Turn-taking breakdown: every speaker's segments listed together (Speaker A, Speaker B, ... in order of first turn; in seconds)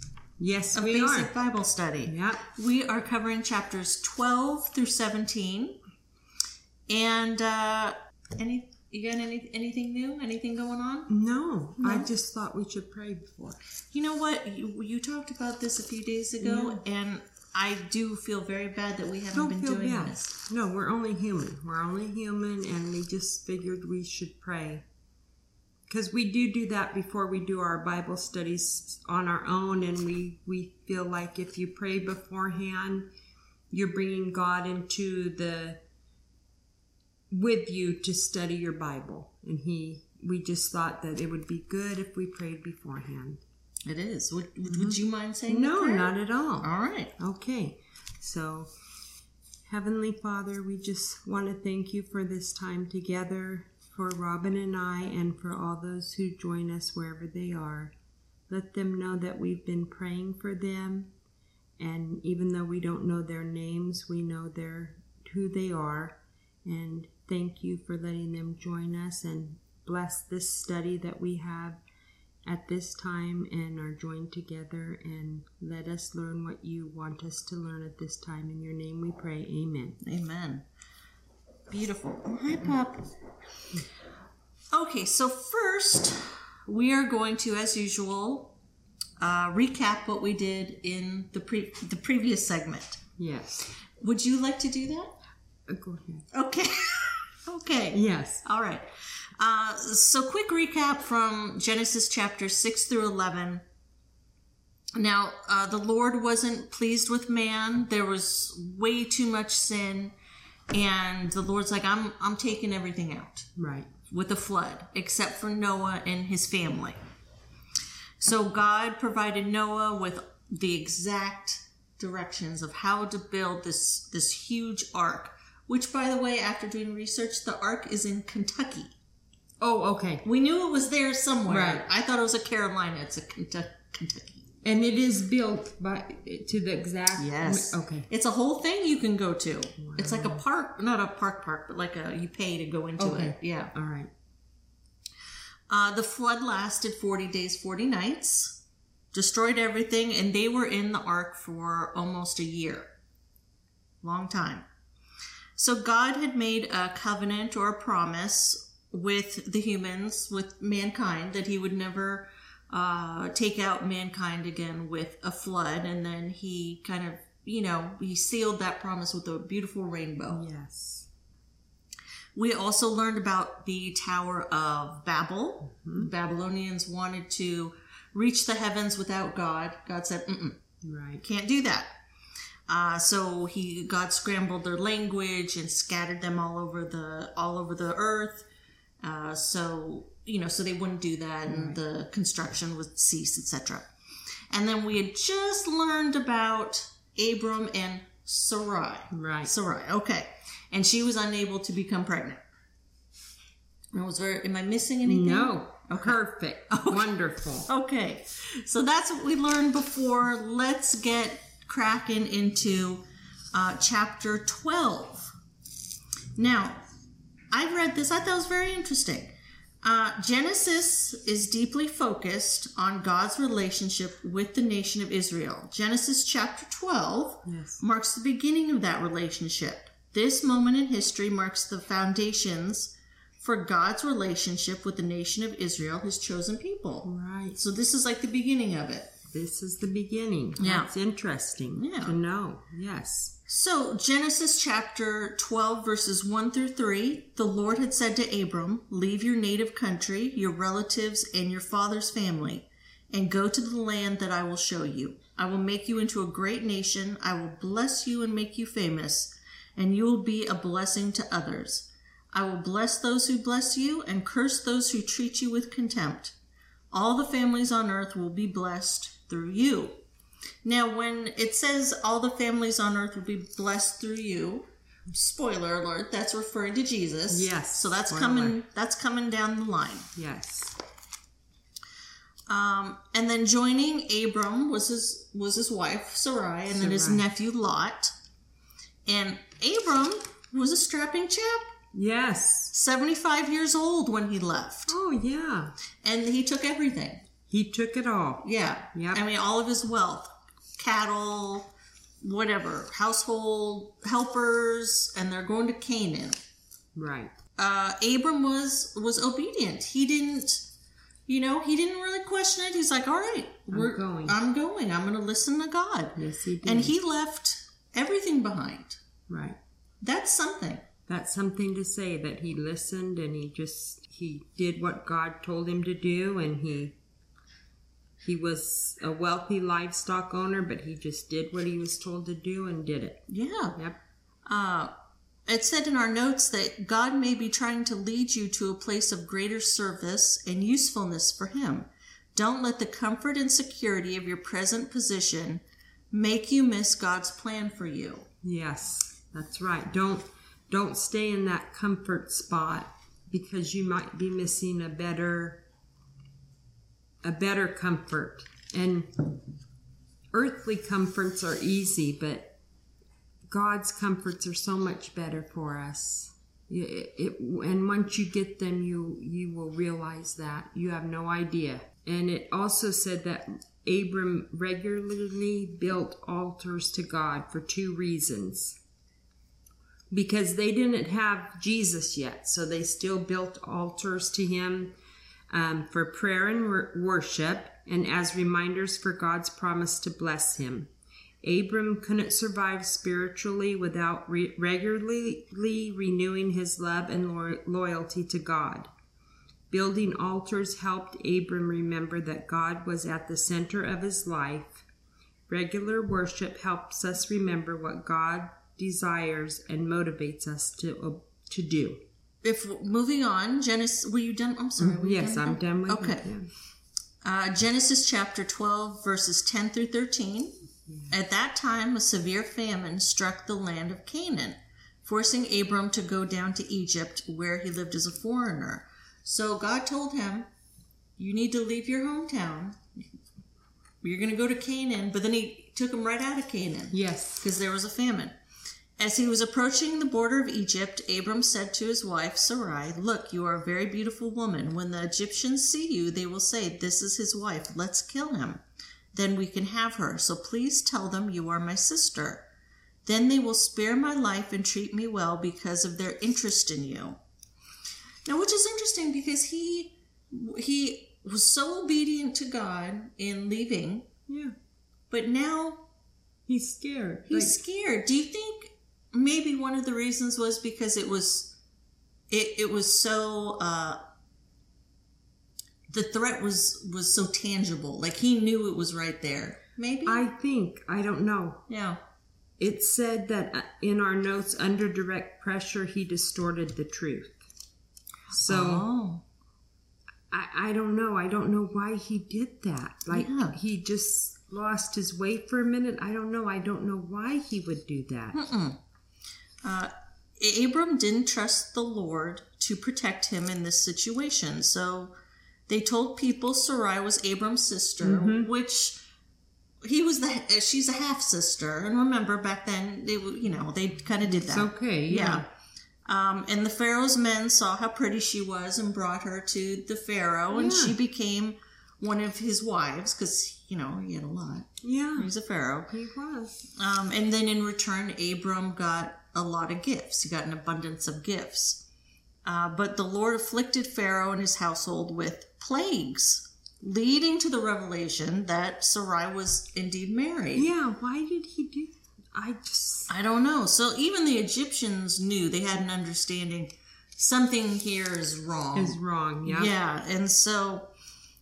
Speaker A: 0.4-1.3, 2.0-2.4, 11.1-13.6, 16.4-16.8, 19.3-24.8, 25.9-33.1, 33.7-35.8, 37.3-43.4, 44.7-45.0, 45.5-48.7, 49.6-57.9, 58.5-61.1, 61.8-71.8, 72.4-80.0, 93.2-93.6, 95.7-96.2, 97.9-98.4, 113.6-113.9, 129.6-130.2, 131.4-131.8, 134.6-138.1, 139.8-140.4, 143.0-144.1, 170.3-171.1, 175.7-176.1, 180.8-181.2, 191.5-191.8, 199.1-199.5, 205.0-207.7, 227.4-227.8, 237.0-237.6, 239.3-243.4, 277.3-278.6, 280.1-280.8, 286.7-287.2, 291.9-292.7, 294.9-295.7, 297.5-299.2, 306.9-307.3, 313.7-314.4, 316.1-316.9, 319.3-319.6, 321.1-327.0, 328.2-333.2, 348.4-355.6, 357.2-359.2, 360.3-362.6, 363.5-378.8, 380.1-384.9, 385.5-390.9, 391.4-398.9, 399.7-404.8, 405.5-412.0, 414.8-416.5, 420.9-421.1, 436.9-437.5, 464.3-464.5, 466.5-467.6, 480.0-481.6, 482.6-487.4, 488.3-488.9, 490.3-498.4, 508.0-508.5, 514.3-515.5, 520.5-521.0, 524.8-525.3, 525.9-526.6, 540.5-543.1, 548.7-549.7
Speaker B: 0.7-5.8, 6.9-11.1, 11.8-12.1, 13.9-20.2, 43.9-47.1, 80.0-80.7, 81.7-83.1, 84.7-88.6, 89.2-93.0, 94.0-95.2, 96.3-103.6, 104.9-110.1, 110.7-113.5, 114.1-117.0, 118.2-128.9, 130.2-134.4, 137.2-143.7, 145.7-148.6, 149.1-152.9, 154.0-154.7, 155.6-170.4, 172.3-180.6, 181.2-181.9, 182.7-188.4, 189.0-193.9, 194.5-202.4, 203.9-207.1, 207.7-215.3, 216.3-216.8, 217.5-239.1, 240.6-240.9, 241.8-242.2, 243.5-266.4, 266.9-270.0, 270.6-280.1, 282.5-288.1, 289.1-291.7, 292.7-294.9, 296.0-297.2, 298.4-301.7, 302.2-306.4, 307.6-310.6, 311.3-319.0, 320.0-320.9, 333.3-333.8, 334.4-334.9, 335.5-348.3, 412.4-416.2, 417.2-420.6, 421.1-430.5, 431.2-432.8, 434.0-438.4, 439.0-448.6, 449.1-452.4, 453.1-457.2, 458.2-464.1, 465.1-465.8, 467.3-471.5, 472.3-474.0, 475.9-480.2, 481.7-482.0, 488.3-489.2, 493.1-493.6, 498.3-498.8, 499.6-505.1, 505.7-509.0, 509.8-515.4, 516.0-525.9, 526.7-531.8, 532.4-540.7, 543.1-550.9